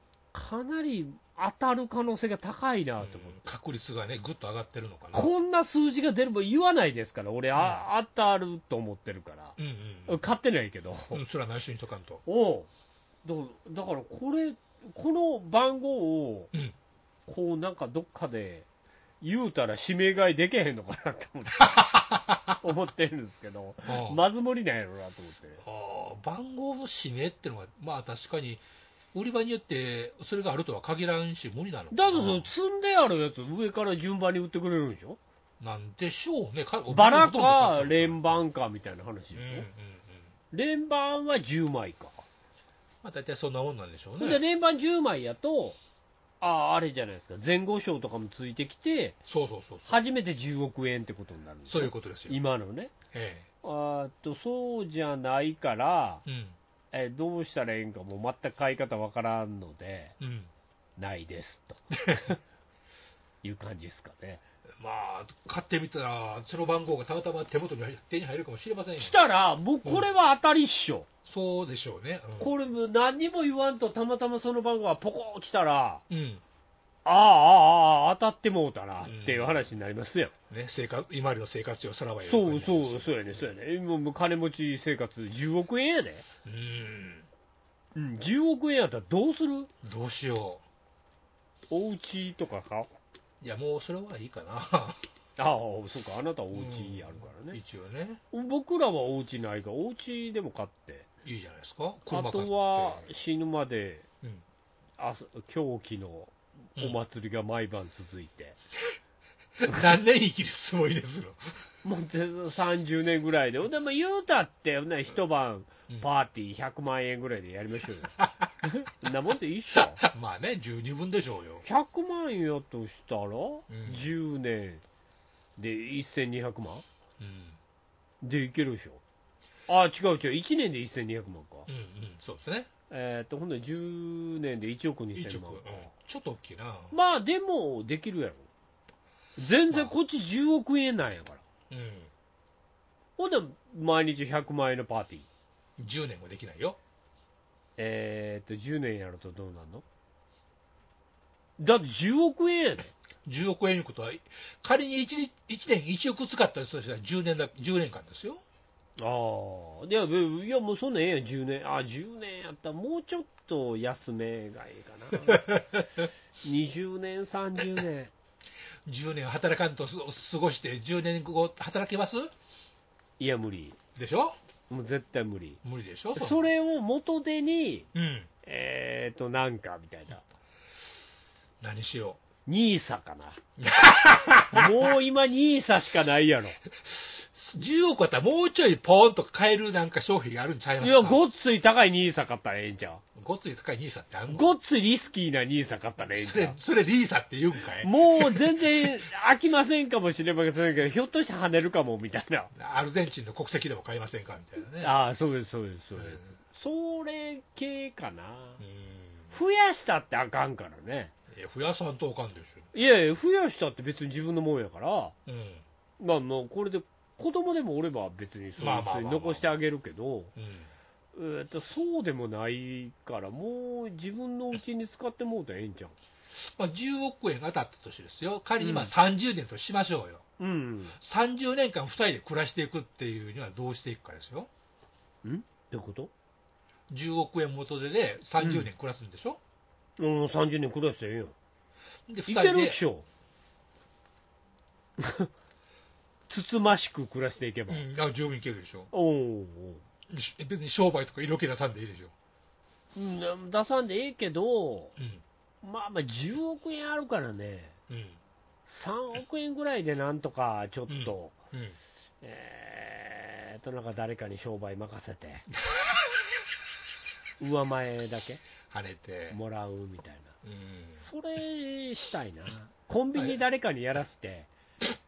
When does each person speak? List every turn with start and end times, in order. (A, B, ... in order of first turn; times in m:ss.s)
0:00.3-0:03.5 A
0:03.0-0:05.3 B
0:05.1-0:11.2 A
0:07.6-0:07.8 B
0:09.6-0:10.2 B
0:11.1-0:12.2 B
0:12.3-0:12.7 A
0:13.2-0:16.5 A
0:17.3-0:18.7 A
0:19.2-0:21.9 A
0:21.6-0:22.6 B
0:22.6-0:25.6 A
0:23.8-0:24.2 B
0:25.6-0:32.5 B
0:31.9-0:35.2 A
0:35.6-0:38.3 B
0:36.9-0:39.7 A
0:39.3-0:40.3 B
0:40.5-0:42.2 A
0:43.0-0:44.4 B
0:44.2-0:45.8 A
0:46.4-0:49.2 A
0:49.3-0:50.0 B
0:49.9-0:52.9 A
0:51.7-0:52.4 B
0:53.1-0:53.5 B
0:53.6-0:56.2 A
0:56.3-0:56.6 B
0:56.9-1:00.2 A
1:00.2-1:00.5 B
1:01.0-1:02.4 A
1:03.4-1:04.4 A
1:04.8-1:09.2 B
1:09.0-1:11.1 A
1:11.3-1:12.5 B
1:12.4-1:16.0 A
1:16.1-1:16.4 B
1:17.0-1:20.3 A
1:19.0-1:19.6 B
1:20.5-1:23.5 B
1:22.2-1:26.3 A
1:26.4-1:27.3 B
1:28.0-1:29.7 A
1:29.8-1:30.6 B
1:31.7-1:32.9 A
1:33.4-1:35.1 B
1:35.4-1:37.6 A
1:36.5-1:38.2 B
1:38.3-1:41.1 A
1:41.2-1:43.1 B
1:42.1-1:44.1 A
1:45.0-1:48.6 A
1:49.6-1:51.7 B
1:51.8-1:58.2 A
1:58.2-1:58.5 B
1:58.7-2:00.0 A
2:00.0-2:01.6 B
2:01.6-2:04.8 A
2:03.7-2:04.1 B
2:05.6-2:06.8 A
2:07.2-2:07.6 B
2:08.2-2:09.0 A
2:09.7-2:11.7 A
2:11.7-2:12.7 B
2:12.9-2:15.9 A
2:15.2-2:16.9 B
2:16.9-2:18.5 A
2:19.4-2:21.4 A
2:19.7-2:19.9 B
2:21.7-2:22.1 B
2:23.2-2:25.3 A
2:25.8-2:26.8 B
2:27.8-2:29.8 A
2:31.6-2:32.9 A
2:33.2-2:38.4 B
2:39.0-2:45.6 A
2:45.3-2:46.0 B
2:46.4-2:48.1 A
2:48.9-2:52.3 B
2:53.2-2:53.8 A
2:54.0-2:54.4 B
2:54.7-2:55.6 A
2:55.6-2:56.5 B
2:56.2-2:57.9 A
2:57.9-2:58.3 B
2:58.4-3:00.2 A
3:01.6-3:02.2 B
3:02.5-3:03.4 A
3:03.6-3:04.8 B
3:04.5-3:06.6 A
3:06.8-3:11.2 B
3:10.8-3:13.0 A
3:13.2-3:14.5 B
3:14.3-3:16.6 A
3:16.2-3:18.9 B
3:17.8-3:22.5 A
3:22.5-3:25.0 B
3:24.8-3:28.6 A
3:26.0-3:26.3 B
3:28.6-3:29.3 B
3:29.3-3:31.1 A
3:31.3-3:32.7 B
3:32.7-3:35.2 A
3:35.3-3:35.6 B
3:36.0-3:40.3 A
3:38.6-3:39.6 B
3:40.4-3:40.7 B
3:41.2-3:45.9 A
3:46.3-3:50.3 B
3:48.6-3:48.9 A
3:50.4-3:51.0 A
3:51.0-3:54.5 B
3:55.2-3:56.1 A
3:56.9-3:59.4 B
3:58.4-3:58.7 A
4:00.0-4:01.4 A
4:02.1-4:02.8 B
4:02.3-4:03.1 A
4:05.0-4:05.3 A
4:06.3-4:07.9 A
4:07.7-4:08.9 B
4:08.9-4:09.8 A
4:10.1-4:12.1 B
4:13.0-4:14.9 A
4:15.0-4:15.2 B
4:15.6-4:17.8 A
4:17.9-4:18.2 B
4:18.7-4:21.4 A
4:20.9-4:21.8 B
4:22.2-4:25.5 A
4:25.6-4:26.0 B
4:27.4-4:28.4 A
4:28.7-4:29.4 B
4:29.3-4:30.4 A
4:30.4-4:31.0 B
4:31.0-4:34.5 A